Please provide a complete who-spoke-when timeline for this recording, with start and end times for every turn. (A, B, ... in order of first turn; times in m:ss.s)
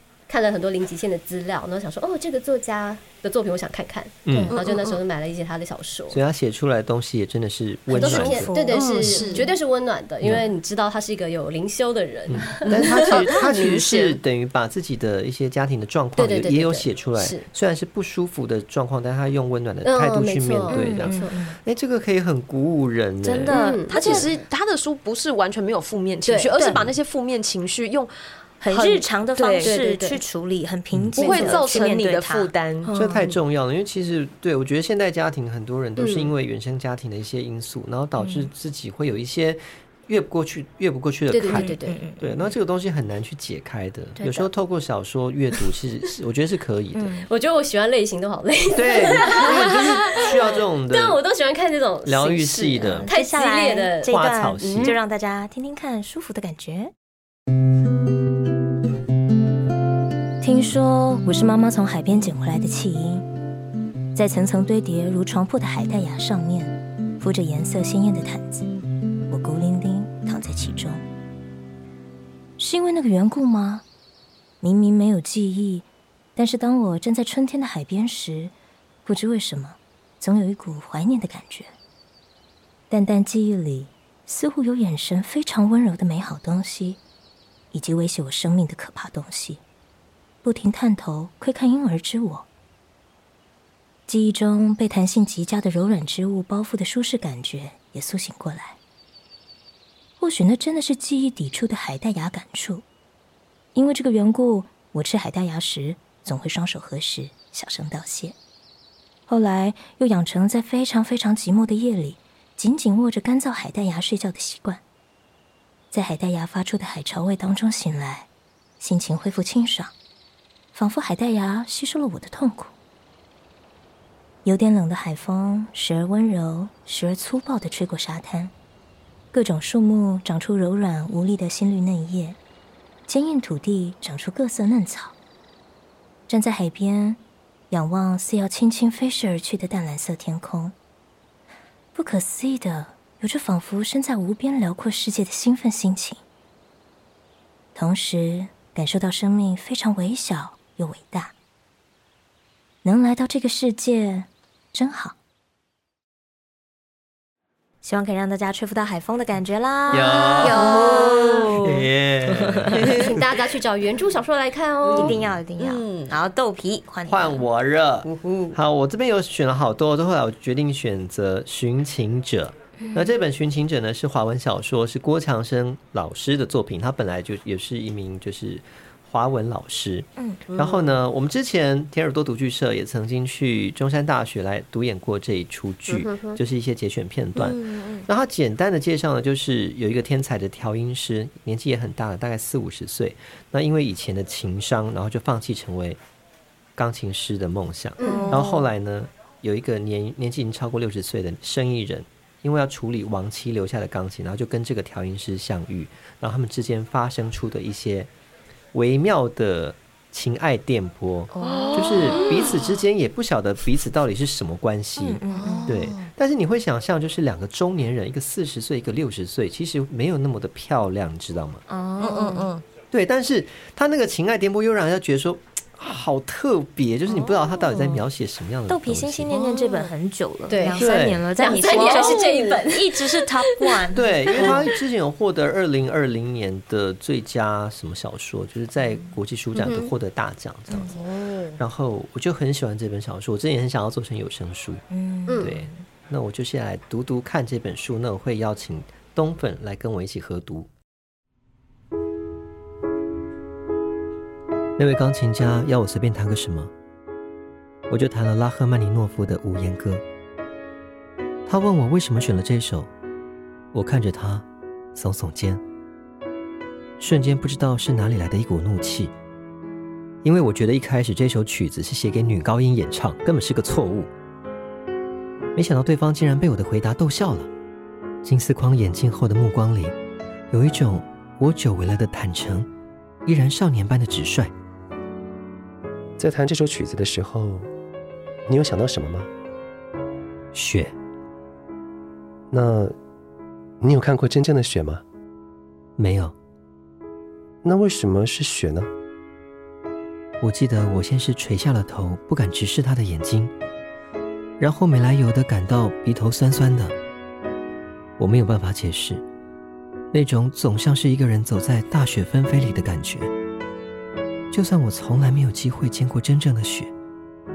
0:00.3-0:06.2 A
0:04.3-0:04.6 B
0:04.5-0:05.0 C
0:06.1-0:08.6 B
0:07.9-0:14.1 A
0:07.9-0:09.5 D
0:08.7-0:09.5 C
0:12.3-0:23.5 B
0:16.2-0:17.5 A
0:19.8-0:21.3 A
0:20.7-0:21.6 D
0:23.2-0:24.3 D
0:23.5-0:24.4 A
0:23.5-0:28.1 C
0:26.7-0:27.0 B
0:28.6-0:33.3 D
0:28.7-0:29.8 C
0:29.6-0:30.2 A
0:30.9-0:31.3 B
0:31.2-0:32.9 C
0:31.2-0:31.8 A
0:33.0-0:47.2 B
0:36.0-0:36.3 A
0:38.2-0:38.5 D
0:41.3-0:42.0 A
0:41.5-0:42.5 D
0:44.2-0:44.5 D
0:46.9-0:47.3 D
0:47.3-0:50.3 A
0:48.7-0:51.2 B
0:50.9-0:54.1 A
0:52.0-0:53.1 B
0:52.8-0:56.9 D
0:54.0-0:55.0 B
1:00.4-1:03.3 D
1:04.1-1:08.7 D
1:09.3-1:11.0 D
1:12.6-1:13.8 D
1:14.6-1:18.5 D
1:19.0-1:21.8 D
1:22.9-1:27.0 D
1:27.7-1:29.6 D
1:30.4-1:32.5 D
1:34.1-1:38.8 D
1:40.2-1:42.8 D
1:43.7-1:48.4 D
1:49.3-1:54.8 D
1:55.9-1:58.3 D
1:58.8-1:59.9 D
2:00.7-2:02.7 D
2:04.4-2:08.5 D
2:09.3-2:12.4 D
2:13.1-2:15.2 D
2:16.3-2:20.8 D
2:22.0-2:26.2 D
2:27.8-2:31.3 D
2:32.8-2:35.2 D
2:37.8-2:43.2 D
2:39.9-2:43.2 B
2:40.4-2:41.2 C
2:42.9-2:45.2 A
2:44.9-2:47.4 D
2:45.6-2:46.2 C
2:47.1-3:16.0 B
2:52.8-2:53.1 D
3:00.5-3:00.9 C
3:05.9-3:06.4 A
3:07.4-3:08.1 D
3:16.8-3:28.1 B
3:18.0-3:18.5 A
3:18.0-3:18.7 D
3:28.7-3:41.6 B
3:31.3-3:32.7 C
3:31.4-3:32.5 D
3:35.0-3:36.0 D
3:35.3-3:36.1 C
3:41.7-3:42.5 D
3:42.0-3:42.6 C
3:42.9-3:49.3 B
3:47.2-3:48.0 D
3:48.7-3:54.7 D
3:49.3-3:49.9 C
3:50.5-3:53.7 A
3:50.8-3:51.3 B
3:51.5-3:52.3 C
3:53.9-4:01.0 B
3:59.6-3:59.9 A
4:00.7-4:01.6 D
4:01.6-4:04.8 B
4:04.9-4:05.8 D
4:05.3-4:05.6 A
4:05.4-4:10.7 B
4:14.8-4:16.7 B
4:17.9-4:20.0 B
4:21.5-4:22.9 B
4:23.7-4:25.6 B
4:27.0-4:29.1 B
4:30.2-4:34.1 B
4:35.6-4:37.5 B
4:38.2-4:40.0 B
4:40.5-4:42.7 B
4:43.2-4:44.5 B
4:46.2-4:47.7 E
4:48.5-4:49.3 E
4:50.5-4:50.9 B
4:52.5-4:53.0 E
4:53.8-4:55.0 E
4:56.0-4:56.3 B
4:57.6-4:58.9 E
5:00.4-5:03.5 B
5:04.6-5:07.0 B
5:08.2-5:09.2 B
5:10.1-5:13.3 B
5:14.5-5:16.9 B